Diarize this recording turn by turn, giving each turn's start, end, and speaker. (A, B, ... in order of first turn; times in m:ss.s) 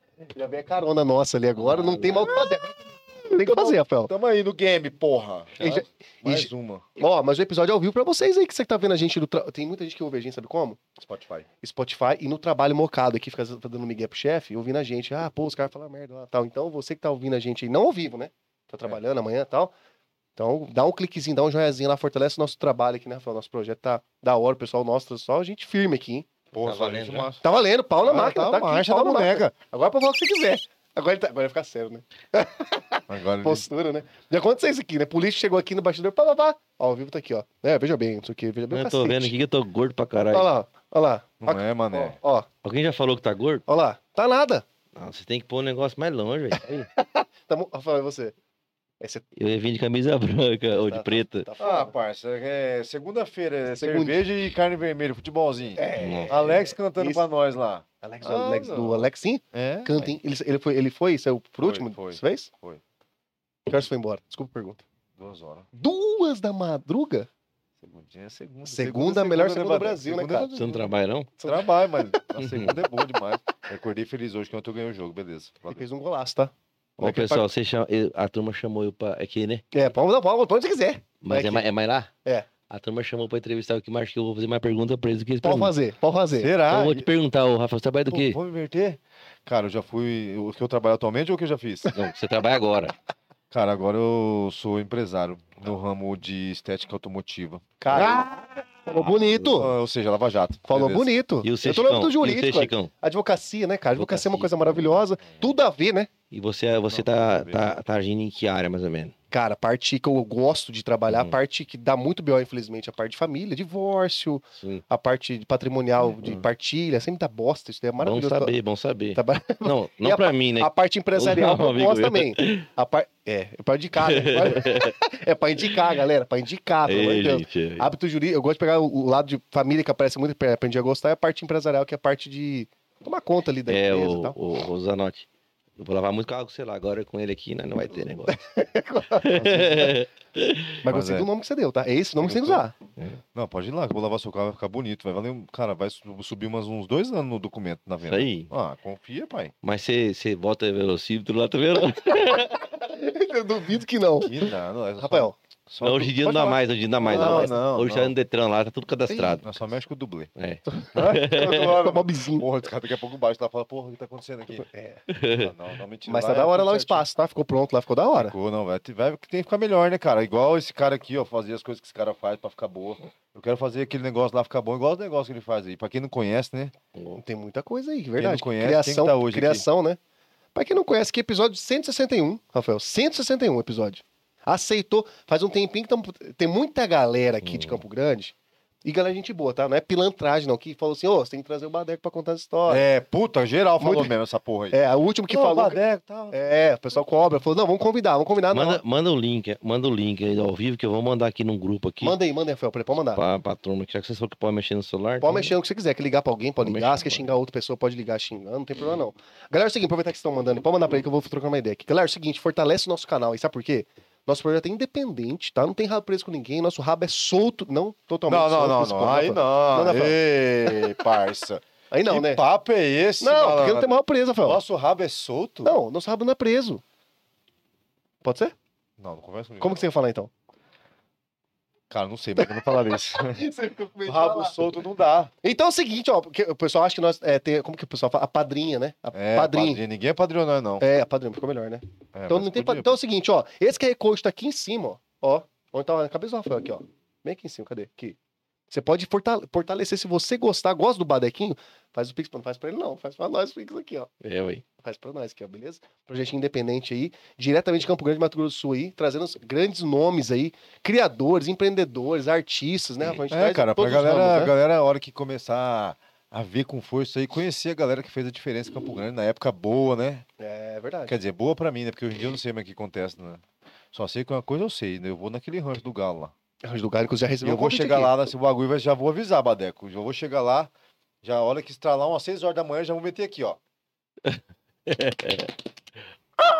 0:00.3-0:04.1 A
0:01.6-0:02.4 B
0:03.4-0:06.9 C
0:05.6-0:05.8 B
0:05.6-0:10.8 A
0:11.0-0:11.5 C
0:11.6-0:19.7 A
0:20.4-0:26.3 A
0:26.5-0:27.4 C
0:26.6-0:27.3 B
0:27.4-0:39.3 A
0:28.0-0:29.5 C
0:33.1-0:33.7 C
0:38.7-0:40.5 B
0:40.3-0:42.5 A
0:41.4-0:42.2 C
0:42.6-0:43.6 B
0:43.7-0:44.6 A
0:45.0-0:46.9 B
0:47.0-0:48.4 A
0:49.4-0:51.5 B
0:50.7-0:52.0 A
0:51.6-1:00.2 C
0:53.7-0:54.2 A
0:55.8-0:57.2 A
0:56.0-0:56.4 B
0:58.0-1:02.5 A
1:01.6-1:02.8 C
1:03.7-1:04.8 A
1:05.2-1:05.7 C
1:05.7-1:07.3 A
1:07.8-1:10.5 C
1:08.6-1:10.8 A
1:10.6-1:11.3 B
1:11.4-1:12.2 A
1:11.4-1:15.8 C
1:12.4-1:12.8 B
1:15.7-1:17.4 A
1:17.0-1:19.6 B
1:19.7-1:21.6 A
1:21.2-1:22.1 B
1:22.7-1:25.7 B
1:25.4-1:26.6 A
1:26.4-1:27.1 C
1:26.7-1:28.4 B
1:28.1-1:31.9 C
1:31.9-1:33.0 B
1:33.5-1:38.3 C
1:37.8-1:39.7 A
1:38.9-1:41.1 C
1:40.7-1:46.1 A
1:41.4-1:42.9 B
1:44.0-1:44.8 B
1:46.3-1:49.1 B
1:46.9-1:47.7 C
1:49.3-1:58.6 A
1:54.6-1:54.8 B
1:58.0-2:02.7 B
1:59.2-2:14.4 A
2:04.0-2:05.0 B
2:06.9-2:07.9 B
2:13.7-2:15.3 B
2:15.8-2:18.4 B
2:18.3-2:19.9 A
2:19.2-2:20.8 B
2:19.4-2:19.9 C
2:20.8-2:22.7 A
2:20.8-2:21.3 C
2:22.2-2:22.6 C
2:23.3-2:29.5 C
2:28.1-2:28.5 B
2:29.6-2:32.6 B
2:32.8-2:35.4 A
2:34.2-2:38.2 C
2:35.8-2:39.5 B
2:37.0-2:37.6 A
2:39.1-2:39.5 A
2:39.4-2:40.3 C
2:40.4-2:41.6 B
2:40.7-2:42.5 A
2:40.9-2:44.7 C
2:44.7-2:45.0 A
2:45.1-2:45.5 B
2:45.4-2:47.0 C
2:46.1-2:48.4 A
2:48.2-2:56.7 C
2:57.0-2:57.2 B
2:57.2-3:00.0 A
2:58.2-2:59.6 C
3:00.6-3:12.8 A
3:07.4-3:07.8 B
3:12.7-3:14.8 C
3:13.8-3:14.2 A
3:14.7-3:18.8 A
3:15.3-3:16.4 C
3:18.5-3:22.2 B
3:22.0-3:23.2 A
3:23.1-3:25.5 B
3:25.2-3:41.1 A
3:26.6-3:27.2 B
3:38.3-3:45.8 C
3:41.9-3:42.4 A
3:43.2-3:44.6 A
3:45.6-3:46.8 A
3:48.2-3:48.5 A
3:49.0-3:49.8 C
3:49.6-3:50.3 A
3:51.9-3:53.4 C
3:52.4-3:54.6 A
3:54.0-3:55.3 C
3:55.4-3:59.8 A
3:59.1-4:00.8 C
4:00.8-4:08.2 A
4:02.1-4:03.0 C
4:08.7-4:14.1 A
4:14.2-4:14.6 B
4:14.8-4:24.5 A
4:23.3-4:30.2 C
4:30.4-4:31.2 A
4:31.1-4:36.3 C
4:36.6-4:38.2 A
4:37.4-4:40.7 C
4:41.2-4:43.6 C
4:44.3-4:45.5 B